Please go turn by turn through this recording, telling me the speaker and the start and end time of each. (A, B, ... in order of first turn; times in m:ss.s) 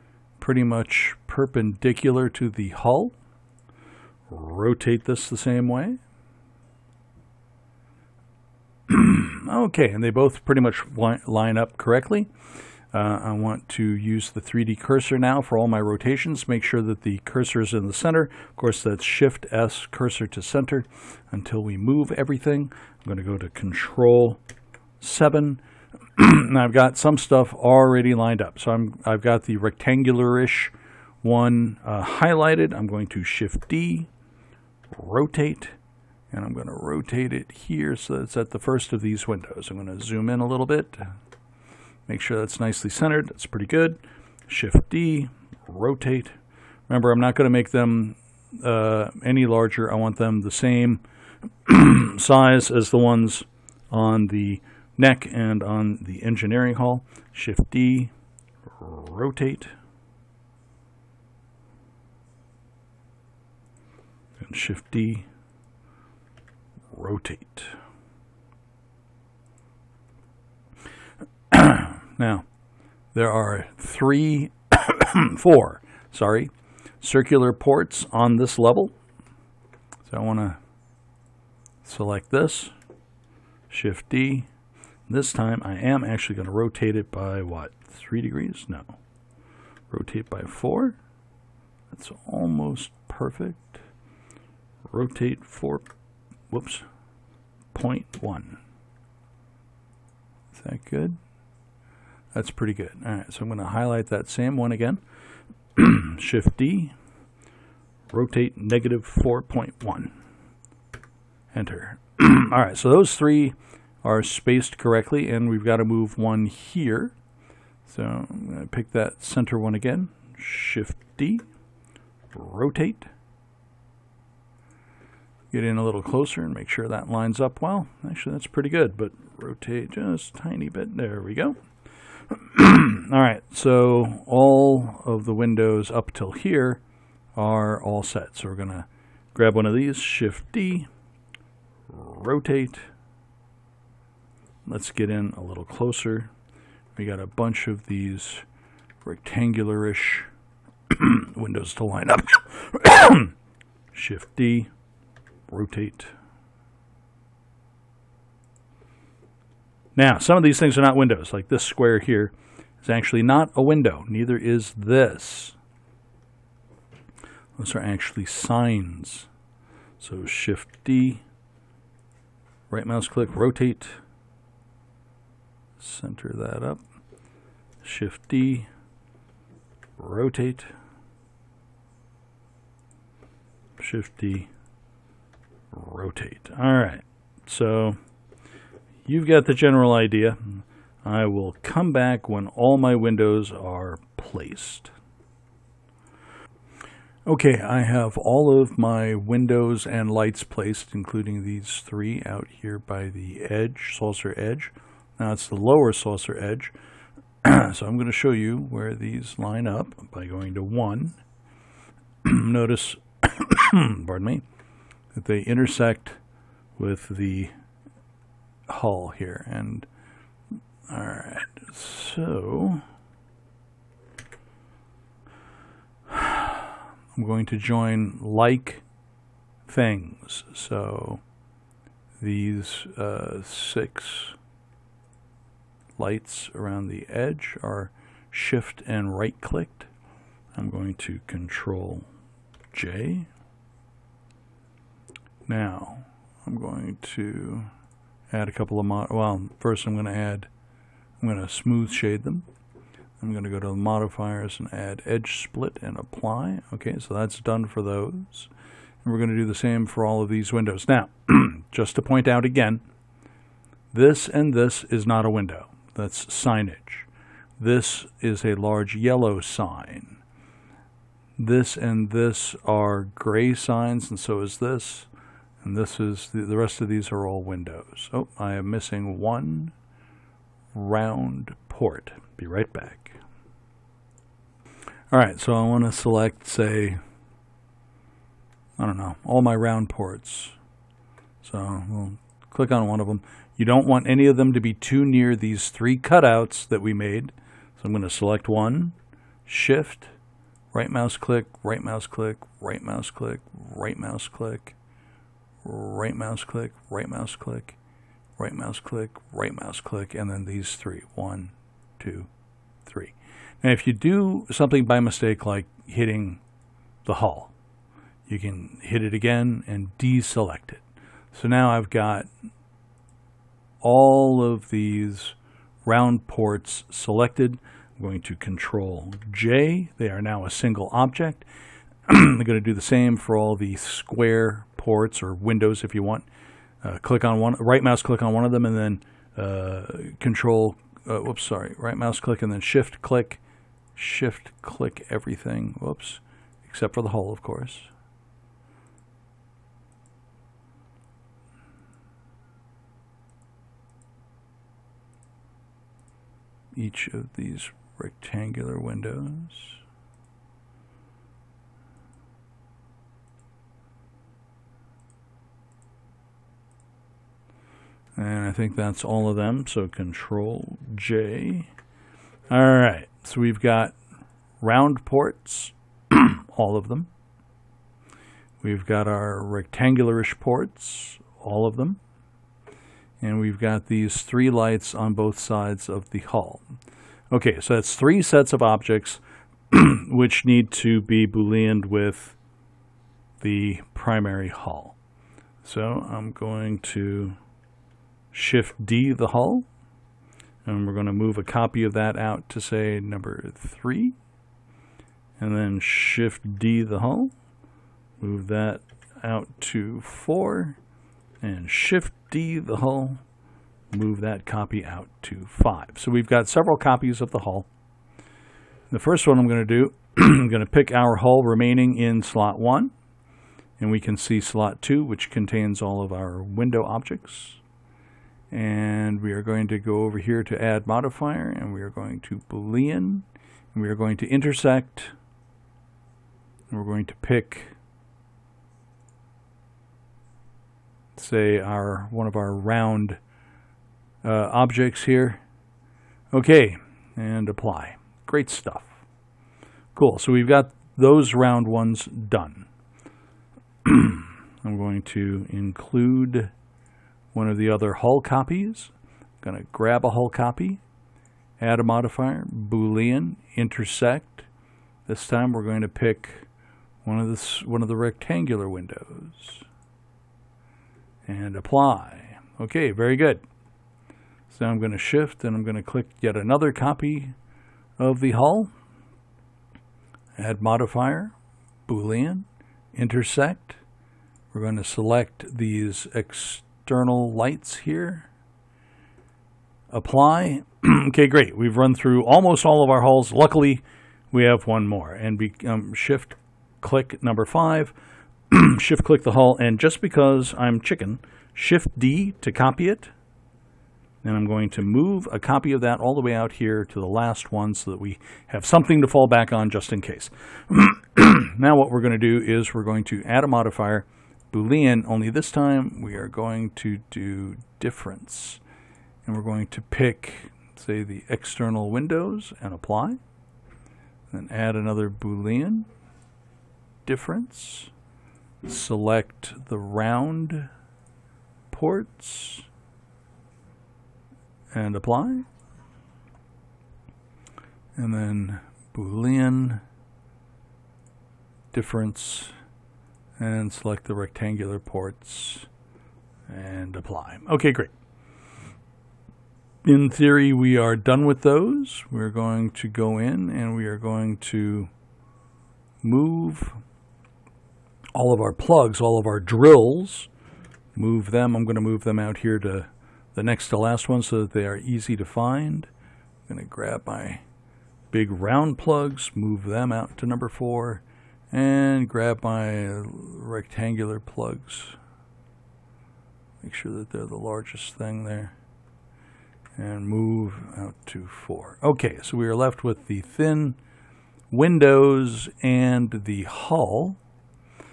0:00.4-0:03.1 A
0:04.3-0:06.0 A
0:08.9-0:12.3 A
0:12.9-0:24.4 A
0:25.0-0:25.6 A
0:26.2-0:34.1 A
0:34.9-0:35.7 A
0:36.3-0:41.1 A
0:42.1-0:46.4 A
0:46.9-0:51.0 A
0:51.6-0:58.1 A
0:58.8-0:59.7 A
1:04.4-1:05.3 A
1:06.9-1:07.7 A
1:11.5-1:12.4 A
1:13.1-1:18.9 A
1:20.0-1:20.6 A
1:21.8-1:22.7 A
1:23.7-1:24.5 A
1:25.1-1:29.0 A
1:29.9-1:31.0 A
1:31.9-1:33.8 A
1:34.9-1:35.8 A
1:36.5-1:36.9 A
1:37.7-1:38.6 A
1:40.5-1:41.2 A
1:42.3-1:45.0 A
1:45.7-1:46.9 A
1:48.1-1:50.1 A
1:51.5-1:57.1 A
1:57.8-2:01.4 A
2:02.3-2:03.1 A
2:05.5-2:11.6 A
2:12.3-2:16.8 A
2:17.3-2:20.9 A
2:21.9-2:22.9 A
2:24.6-2:26.3 A
2:26.9-2:28.4 A
2:29.0-2:30.3 A
2:30.9-2:33.3 A
2:33.9-2:34.7 A
2:35.5-2:36.1 A
2:40.0-2:45.6 A
2:47.6-2:49.3 A
2:50.0-2:51.2 A
2:52.7-2:54.0 A
2:55.8-2:56.8 A
2:57.8-2:58.7 A
3:00.0-3:00.7 A
3:03.8-3:04.5 A
3:05.7-3:08.0 A
3:09.0-3:14.9 A
3:17.2-3:26.7 A
3:27.4-3:31.2 A
3:32.2-3:34.4 A
3:35.1-3:36.2 A
3:36.8-3:37.5 A
3:38.7-3:39.9 A
3:40.9-3:42.8 A
3:46.1-3:48.8 A
3:49.7-3:51.2 A
3:52.2-3:54.4 A
3:56.0-3:59.9 A
4:00.5-4:02.1 A
4:02.7-4:03.3 A
4:05.5-4:07.7 A
4:08.3-4:10.5 A
4:11.2-4:12.4 A
4:13.2-4:18.5 A
4:19.0-4:22.8 A
4:23.9-4:27.1 A
4:27.6-4:30.2 A
4:31.4-4:35.1 A
4:35.6-4:39.7 A
4:40.7-4:43.2 A
4:45.1-4:47.0 A
4:48.8-4:50.6 A
4:51.4-4:58.9 A
4:59.5-5:00.1 A
5:00.7-5:04.7 A
5:05.6-5:07.8 A
5:08.4-5:12.3 A
5:12.8-5:16.4 A
5:17.0-5:17.5 A
5:18.3-5:22.3 A
5:23.8-5:31.4 A
5:32.0-5:36.2 A
5:36.8-5:43.4 A
5:44.0-5:47.9 A
5:56.7-5:59.8 A
6:08.2-6:11.7 A
6:12.5-6:14.0 A
6:14.6-6:17.1 A
6:18.6-6:22.0 A
6:23.2-6:26.6 A
6:27.3-6:32.4 A
6:33.4-6:34.9 A
6:35.6-6:37.4 A
6:38.3-6:39.6 A
6:40.6-6:44.1 A
6:45.4-6:47.3 A
6:48.2-6:50.8 A
6:51.4-6:53.2 A
6:53.9-6:57.7 A
6:58.9-7:02.9 A
7:03.8-7:07.6 A
7:08.5-7:15.1 A
7:16.7-7:17.7 A
7:21.2-7:23.2 A
7:24.2-7:25.4 A
7:26.3-7:28.9 A
7:29.9-7:32.7 A
7:33.8-7:36.5 A
7:37.3-7:40.8 A
7:41.6-7:44.5 A
7:45.1-7:46.4 A
7:47.0-7:49.6 A
7:51.2-7:53.4 A
7:54.5-7:57.3 A
7:58.0-7:58.7 A
8:00.4-8:01.3 A
8:01.9-8:03.8 A
8:04.5-8:08.3 A
8:09.9-8:17.9 A
8:18.5-8:23.1 A
8:24.2-8:38.6 A
8:39.2-8:43.2 A
8:44.3-8:45.9 A
8:47.0-8:47.9 A
8:48.6-8:50.7 A
8:51.7-8:52.7 A
8:54.7-8:55.4 A
8:58.0-8:59.8 A
9:01.7-9:02.5 A
9:03.4-9:05.7 A
9:06.5-9:07.9 A
9:09.8-9:14.9 A
9:16.0-9:16.8 A
9:18.1-9:20.3 A
9:20.9-9:25.9 A
9:26.5-9:27.4 A
9:28.1-9:35.0 A
9:36.6-9:38.5 A
9:39.8-9:43.8 A
9:44.5-9:47.2 A